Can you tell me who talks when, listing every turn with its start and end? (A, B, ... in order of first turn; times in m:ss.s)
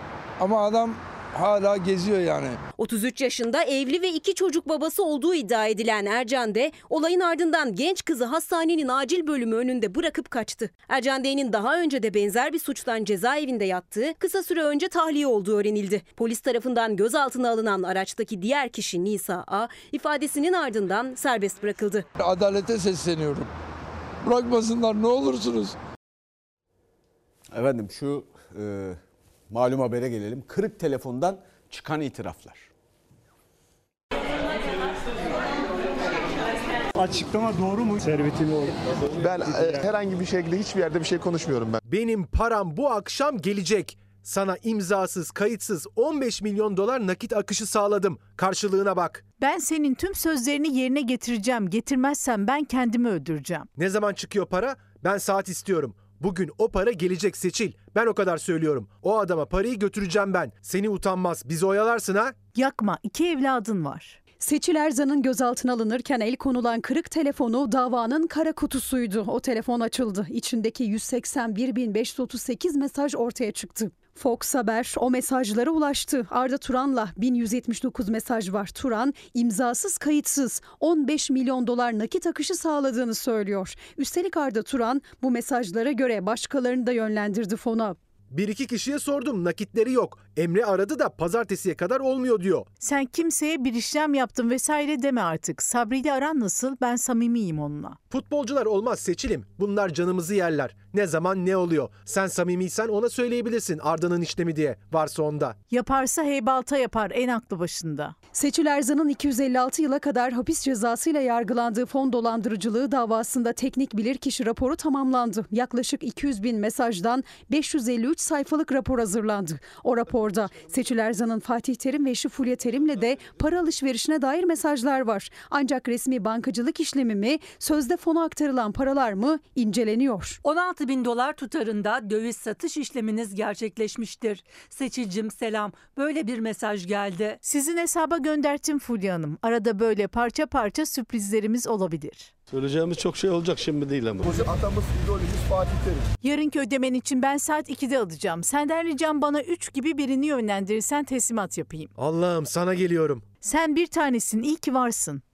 0:00.4-0:02.6 A
0:02.8-0:22.0 B
0:22.2-0:23.5 A
0:24.2-0:25.8 A
0:27.5-0:29.0 C
0:29.5-0:32.7 C
0:39.2-0:41.8 D
0:41.9-0:49.2 E
0:49.4-0:53.7 F
0:53.8-1:02.3 E
1:02.5-1:04.2 F
1:04.4-1:28.0 G
1:28.3-1:32.7 E
1:32.8-1:38.0 F
1:38.1-1:45.6 E
1:45.7-1:48.1 F
1:48.3-2:10.4 G
2:10.5-2:13.6 H
2:14.1-2:14.8 H
2:15.7-2:17.2 H
2:17.4-2:22.3 F
2:22.5-2:24.9 I
2:26.2-2:31.9 F
2:32.0-2:33.2 E
2:33.4-2:35.2 F